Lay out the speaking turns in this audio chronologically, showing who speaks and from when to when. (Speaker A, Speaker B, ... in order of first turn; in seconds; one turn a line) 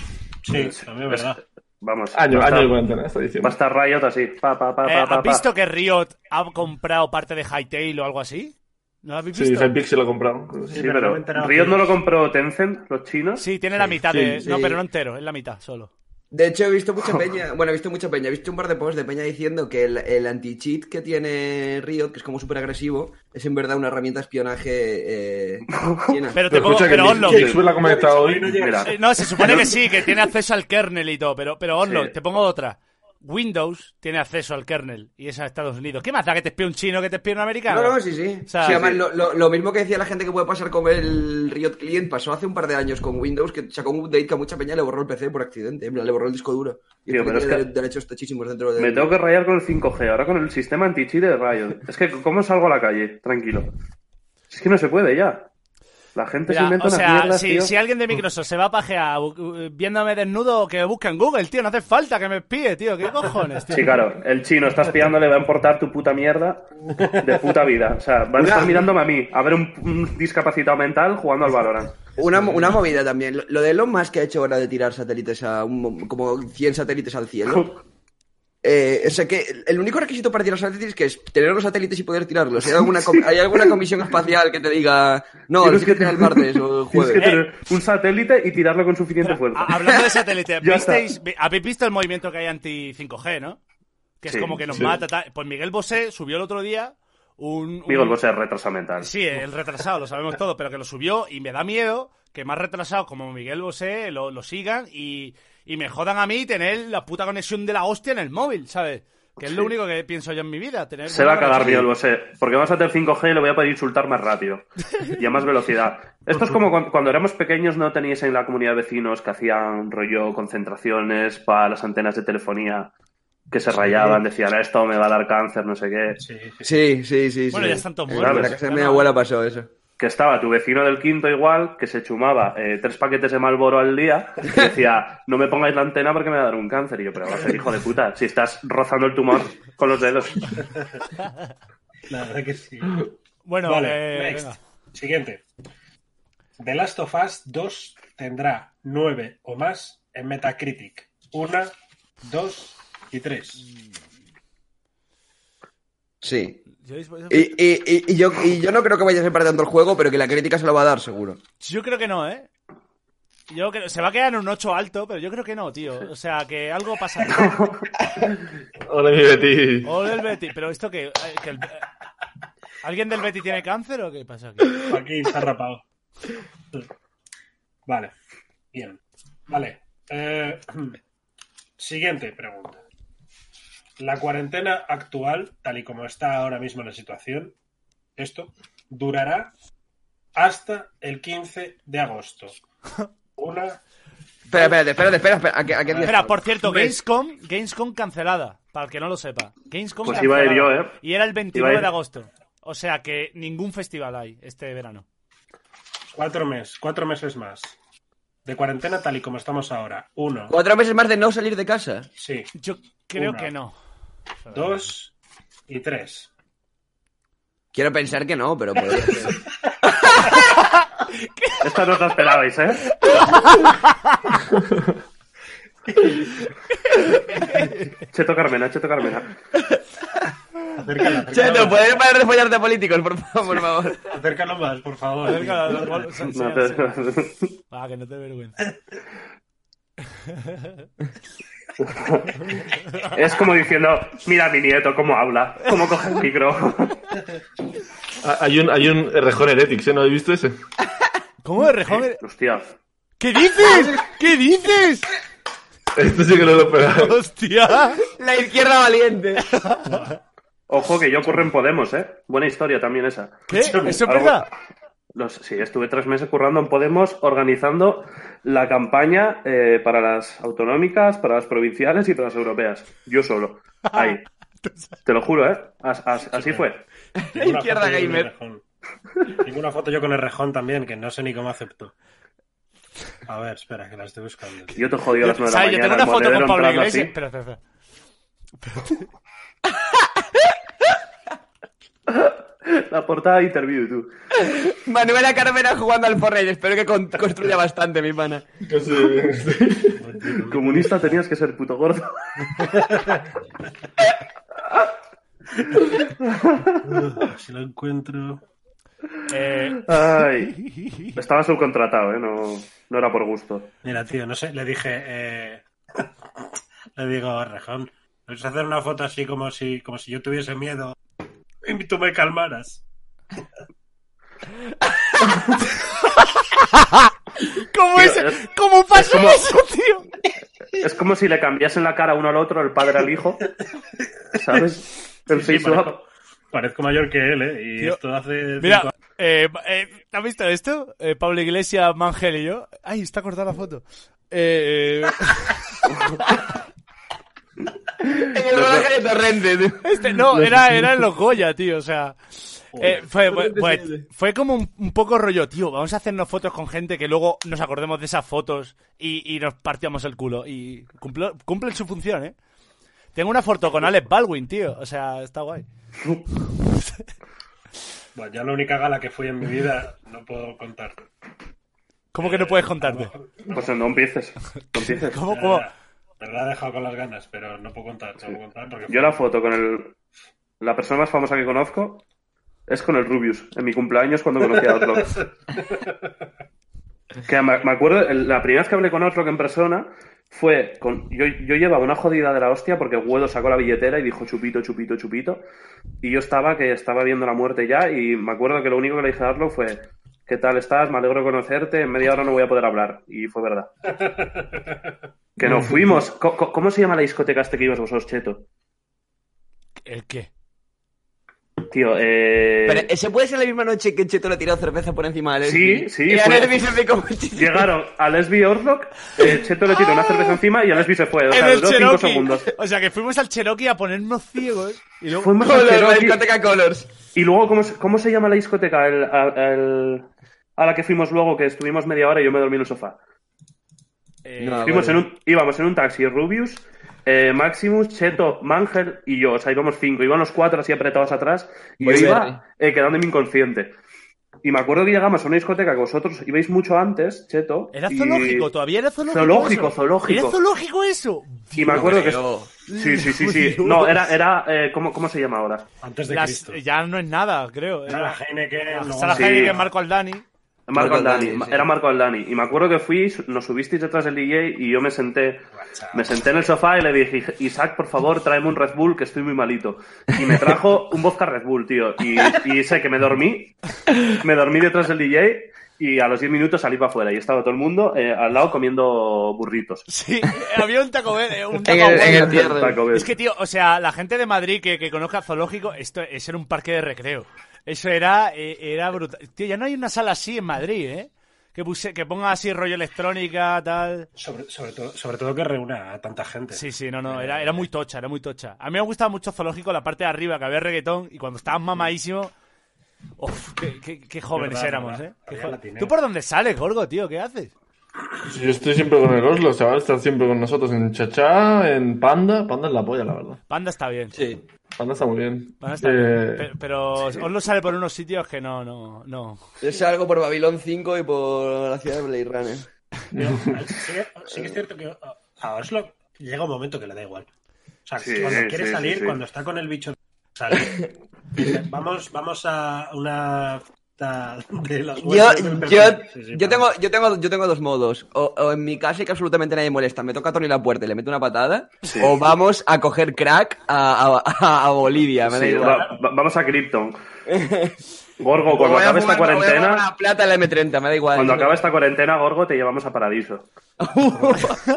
Speaker A: 0.5-1.4
Speaker B: 0.5-2.8
Speaker C: 2.1-3.6
Speaker B: 3.4-5.5
Speaker D: 4.8-9.7
Speaker C: 9.3-10.8
Speaker A: 10.7-11.9
Speaker B: 10.7-13.4
Speaker D: 13.4-15.9
Speaker C: 13.8-14.5
Speaker E: 14.4-14.8
Speaker E: 16.3-26.4
Speaker B: 25.7-26.2
Speaker D: 26.3-27.5
Speaker C: 26.5-28.8
Speaker B: 26.9-27.6
Speaker A: 27.1-29.7
Speaker B: 28.5-29.7
Speaker D: 28.9-39.0
Speaker B: 31.8-32.1
Speaker E: 37.7-49.1
Speaker B: 47.1-47.6
Speaker B: 48.8-53.7
Speaker B: 54.5-55.5
Speaker B: 56.2-57.7
Speaker D: 56.5-64.0
Speaker B: 63.7-66.7
Speaker B: 67.2-72.0
Speaker E: 68.4-68.8
Speaker E: 72.2-77.7
Speaker B: 77.5-77.8
Speaker E: 78.6-87.3
Speaker B: 83.0-83.7
Speaker B: 85.6-89.7
Speaker D: 87.2-87.5
Speaker D: 89.2-93.6
Speaker B: 90.6-91.1
Speaker D: 94.2-98.2
Speaker B: 94.3-94.9
Speaker B: 97.9-99.1
Speaker D: 99.0-111.9
Speaker B: 109.4-109.7
Speaker B: 111.1-122.9
Speaker B: 123.5-126.2
Speaker A: 123.8-124.2
Speaker A: 126.2-126.8
Speaker E: 126.6-129.7
Speaker D: 127.5-129.1
Speaker B: 128.2-128.6
Speaker B: 130.0-140.6
Speaker A: 142.1-143.1
Speaker D: 143.4-144.6
Speaker A: 143.6-145.4
Speaker A: 146.6-153.6
Speaker E: 156.2-156.6
Speaker D: 156.8-157.6
Speaker E: 157.3-161.4
Speaker D: 161.6-162.5
Speaker D: 163.5-167.5
Speaker B: 167.3-167.9
Speaker C: 168.9-169.9
Speaker D: 169.8-171.8
Speaker D: 172.8-174.8
Speaker A: 174.8-175.8
Speaker A: 178.7-181.0
Speaker A: 181.8-182.8
Speaker A: 184.0-187.5
Speaker A: 188.2-189.5
Speaker A: 190.4-192.6
Speaker A: 193.4-193.8
Speaker E: 194.5-196.9
Speaker A: 195.9-196.1
Speaker D: 196.0-205.1
Speaker B: 200.0-201.0
Speaker B: 201.5-201.9
Speaker A: 206.1-207.8
Speaker A: 208.5-210.6
Speaker E: 210.5-212.1
Speaker A: 212.2-212.5
Speaker D: 212.6-213.8
Speaker A: 213.2-213.5
Speaker D: 214.4-214.8
Speaker A: 214.5-215.1
Speaker A: 215.7-216.3
Speaker E: 217.7-220.2
Speaker B: 221.6-222.9
Speaker D: 223.2-224.1
Speaker D: 227.3-227.9
Speaker B: 228.1-229.3
Speaker A: 230.8-232.0
Speaker E: 231.2-234.1
Speaker A: 234.1-236.1
Speaker D: 235.3-236.9
Speaker B: 236.2-237.6
Speaker D: 237.7-238.6
Speaker D: 240.3-240.7
Speaker B: 242.0-242.3
Speaker B: 243.1-247.0
Speaker C: 248.2-250.6
Speaker D: 251.4-252.2
Speaker B: 251.9-252.7
Speaker D: 253.2-255.1
Speaker C: 255.9-257.2
Speaker D: 257.0-258.0
Speaker E: 258.1-259.5
Speaker D: 259.5-260.1
Speaker A: 259.9-260.1
Speaker B: 260.7-264.4
Speaker D: 263.5-264.5
Speaker A: 263.5-264.0
Speaker B: 265.1-274.2
Speaker D: 273.9-275.0
Speaker B: 275.1-276.8
Speaker A: 276.3-276.7
Speaker E: 277.2-278.3
Speaker A: 277.3-278.6
Speaker A: 279.4-281.9
Speaker A: 283.3-284.9
Speaker B: 284.7-287.1
Speaker D: 285.2-287.6
Speaker D: 288.7-289.1
Speaker B: 292.1-294.1
Speaker E: 294.4-298.5
Speaker C: 298.6-300.1
Speaker A: 300.0-300.9
Speaker B: 300.5-302.6
Speaker A: 302.9-303.2
Speaker B: 306.5-306.8
Speaker A: 306.9-308.4
Speaker D: 309.3-309.8
Speaker B: 309.9-310.5
Speaker D: 310.6-311.1
Speaker B: 311.2-313.7
Speaker A: 313.8-316.1
Speaker A: 317.0-321.0
Speaker A: 321.6-322.8
Speaker D: 326.6-330.1
Speaker B: 327.9-328.4
Speaker B: 328.9-329.4
Speaker B: 330.8-333.4
Speaker B: 334.4-336.0
Speaker A: 335.3-336.0
Speaker A: 336.5-338.9
Speaker D: 338.6-345.8
Speaker E: 348.0-350.4
Speaker B: 348.5-348.9
Speaker D: 349.8-362.3
Speaker A: 352.8-353.0
Speaker E: 352.9-354.1
Speaker D: 363.1-365.7
Speaker A: 368.2-371.0
Speaker D: 372.1-373.1
Speaker A: 372.2-373.7
Speaker B: 373.5-375.2
Speaker D: 375.0-375.7
Speaker A: 375.3-379.2
Speaker B: 378.9-379.9
Speaker B: 380.6-382.0
Speaker B: 382.7-385.2
Speaker A: 385.1-386.1
Speaker B: 387.3-395.4
Speaker B: 396.0-403.7
Speaker A: 404.0-404.6
Speaker B: 405.4-408.4
Speaker C: 405.4-405.8
Speaker D: 409.9-410.3
Speaker B: 411.7-412.9
Speaker E: 412.7-417.7
Speaker B: 415.4-416.5
Speaker B: 417.4-422.5
Speaker D: 421.3-425.3
Speaker B: 425.1-426.2
Speaker E: 425.4-426.9
Speaker B: 427.1-430.1
Speaker B: 430.6-433.0
Speaker D: 434.2-434.7
Speaker E: 434.4-435.1
Speaker B: 434.6-443.8
Speaker E: 441.8-442.4
Speaker B: 444.4-448.5
Speaker D: 447.7-451.9
Speaker B: 449.1-450.4
Speaker B: 451.5-455.7
Speaker E: 451.7-452.5
Speaker D: 452.7-454.1
Speaker A: 455.8-456.6
Speaker D: 456.1-458.2
Speaker A: 457.9-459.7
Speaker D: 458.7-460.2
Speaker B: 459.1-459.6
Speaker B: 460.7-473.6
Speaker E: 460.7-461.7
Speaker A: 465.5-466.1
Speaker B: 474.2-479.9
Speaker D: 479.9-494.1
Speaker E: 481.6-482.8
Speaker B: 481.9-483.1
Speaker A: 494.2-497.7
Speaker D: 496.5-502.3
Speaker D: 503.2-507.5
Speaker A: 504.4-505.9
Speaker C: 508.2-513.4
Speaker D: 513.5-514.1
Speaker E: 514.1-514.4
Speaker C: 514.8-516.5
Speaker D: 515.6-519.4
Speaker E: 519.6-522.7
Speaker C: 523.1-523.5
Speaker A: 523.1-527.3
Speaker A: 527.9-536.7
Speaker B: 528.0-529.2
Speaker E: 530.6-530.8
Speaker E: 535.0-545.9
Speaker B: 541.9-542.1
Speaker B: 545.2-547.0
Speaker A: 545.6-546.0
Speaker E: 547.3-547.7
Speaker B: 548.2-549.9
Speaker E: 548.5-551.6
Speaker B: 551.1-553.5
Speaker E: 553.8-554.6